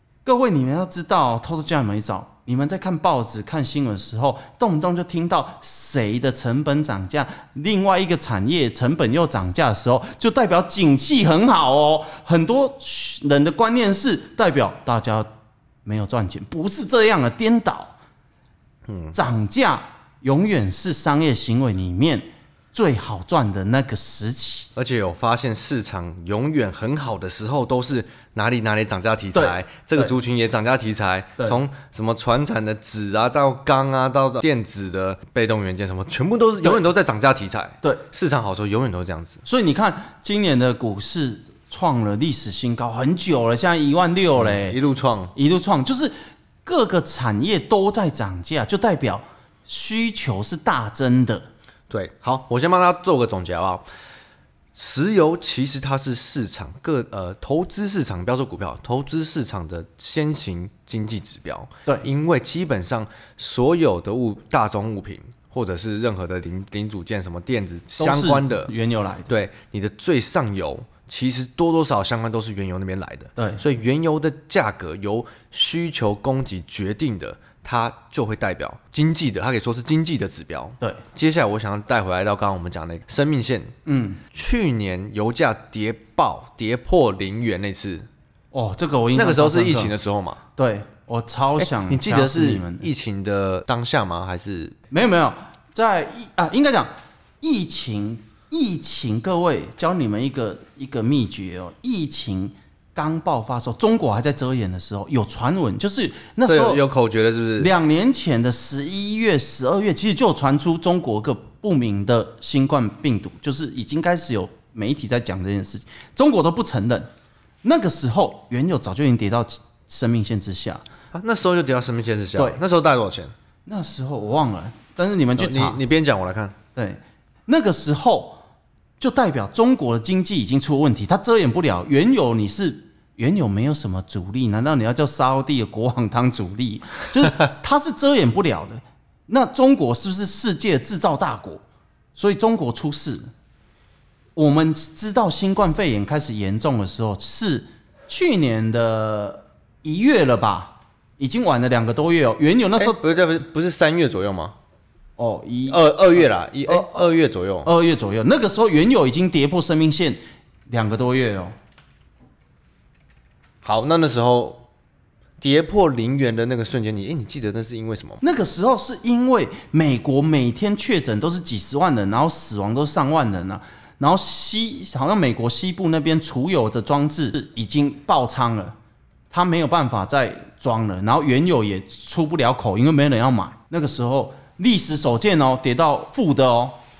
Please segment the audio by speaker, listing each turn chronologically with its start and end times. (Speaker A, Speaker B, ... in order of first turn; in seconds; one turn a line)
Speaker A: 0.2-15.3
Speaker A: 15.8-17.9
Speaker B: 18.9-19.2
Speaker A: 19.1-24.7
Speaker B: 24.8-39.4
Speaker A: 29.3-30.1
Speaker A: 39.4-44.8
Speaker B: 44.3-45.3
Speaker A: 45.3-46.1
Speaker A: 46.6-51.5
Speaker B: 51.9-53.8
Speaker B: 54.7-68.7
Speaker A: 68.0-69.3
Speaker B: 69.3-83.8
Speaker A: 73.4-73.6
Speaker A: 83.8-84.2
Speaker B: 84.3-88.1
Speaker A: 88.5-89.9
Speaker B: 89.1-90.4
Speaker A: 90.6-92.9
Speaker B: 91.6-94.8
Speaker A: 94.9-106.8
Speaker B: 106.5-107.7
Speaker A: 107.6-117.1
Speaker A: 117.6-120.8
Speaker B: 121.1-123.3
Speaker A: 123.7-125.8
Speaker B: 125.4-126.5
Speaker A: 126.8-128.4
Speaker A: 129.0-141.6
Speaker A: 142.2-143.3
Speaker A: 144.3-153.1
Speaker B: 152.8-154.6
Speaker A: 155.2-156.9
Speaker B: 155.7-157.7
Speaker A: 157.6-161.5
Speaker B: 163.6-164.7
Speaker B: 165.4-168.2
Speaker A: 168.2-178.8
Speaker A: 179.3-186.8